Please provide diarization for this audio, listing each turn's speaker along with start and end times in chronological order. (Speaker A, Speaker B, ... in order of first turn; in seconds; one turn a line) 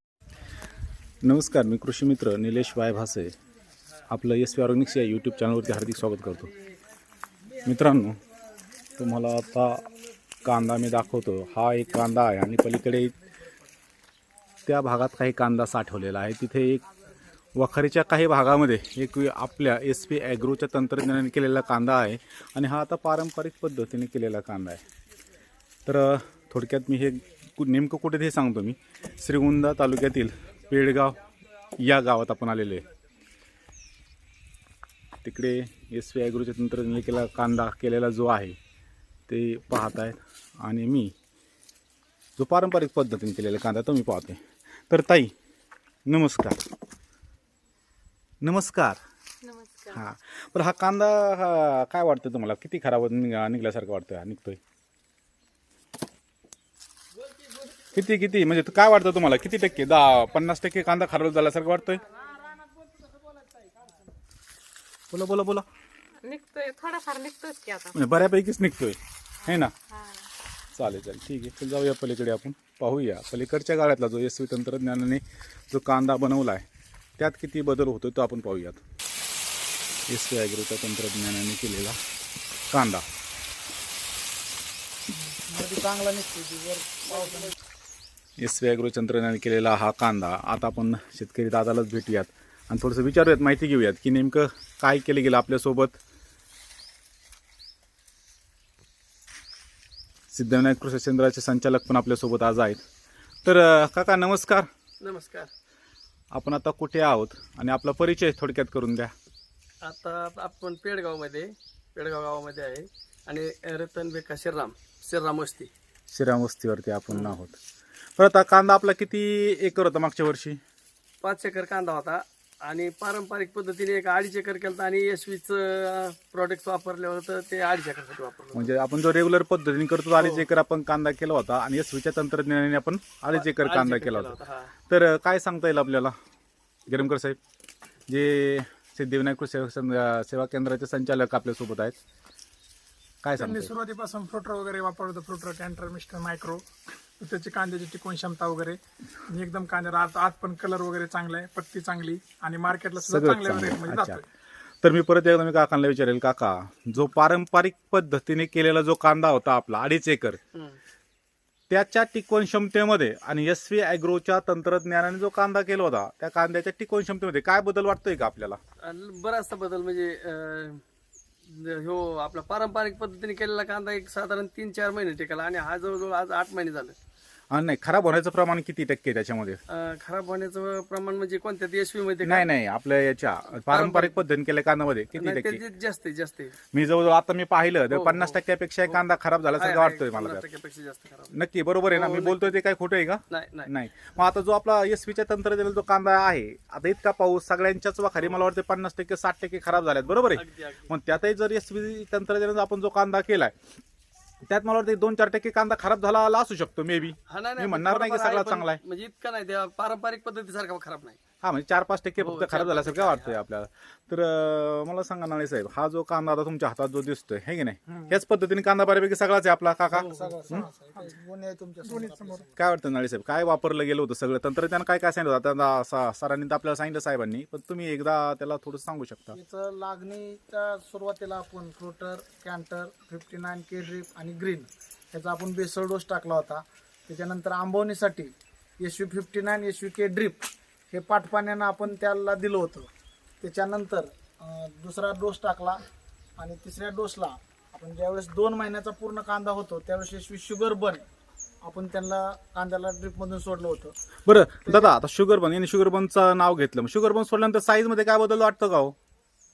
Speaker A: 1.2-3.3
Speaker A: 4.1-6.5
Speaker A: 7.6-8.2
Speaker A: 9.0-9.8
Speaker A: 10.4-13.2
Speaker A: 14.7-16.8
Speaker A: 17.6-24.8
Speaker A: 25.9-31.2
Speaker A: 31.8-32.8
Speaker A: 35.2-38.6
Speaker A: 39.3-41.1
Speaker A: 42.4-45.3
Speaker A: 46.1-46.6
Speaker A: 48.4-49.0
Speaker B: 49.4-50.0
Speaker A: 49.9-54.6
Speaker A: 57.9-62.0
Speaker A: 65.1-65.7
Speaker B: 66.2-67.9
Speaker A: 67.9-69.7
Speaker B: 69.5-70.2
Speaker A: 70.7-76.6
Speaker A: 77.2-78.8
Speaker A: 80.1-82.0
Speaker A: 82.7-83.0
Speaker C: 85.1-87.5
Speaker A: 88.4-96.0
Speaker A: 100.3-102.8
Speaker A: 103.4-104.7
Speaker D: 105.0-105.5
Speaker A: 106.3-109.1
Speaker D: 109.8-115.7
Speaker A: 116.1-117.5
Speaker D: 117.1-117.4
Speaker A: 118.2-120.6
Speaker D: 121.2-128.7
Speaker A: 128.5-134.4
Speaker D: 130.2-130.5
Speaker D: 133.3-134.7
Speaker A: 134.9-136.1
Speaker A: 136.9-137.4
Speaker A: 138.1-142.0
Speaker A: 143.2-143.7
Speaker E: 143.4-146.7
Speaker E: 147.2-154.2
Speaker A: 153.0-154.2
Speaker A: 154.8-160.4
Speaker D: 160.5-160.8
Speaker A: 161.7-168.6
Speaker D: 168.8-170.8
Speaker D: 171.4-176.9
Speaker A: 177.5-179.6
Speaker D: 179.7-182.5
Speaker A: 182.2-185.6
Speaker D: 183.7-184.2
Speaker D: 185.1-186.6
Speaker A: 186.7-190.5
Speaker D: 187.9-189.0
Speaker D: 189.5-191.4
Speaker A: 191.3-203.5
Speaker D: 191.9-192.6
Speaker D: 193.3-193.7
Speaker D: 200.3-200.9
Speaker A: 204.4-208.8
Speaker D: 207.3-211.2
Speaker A: 211.4-220.7
Speaker D: 212.2-213.4
Speaker C: 219.9-222.6
Speaker D: 219.9-220.4
Speaker E: 220.5-221.1
Speaker E: 221.8-222.5
Speaker A: 222.6-229.4
Speaker C: 229.3-242.9
Speaker C: 243.4-245.8
Speaker C: 246.4-251.0
Speaker C: 251.6-253.9
Speaker A: 254.2-258.9
Speaker C: 254.6-254.9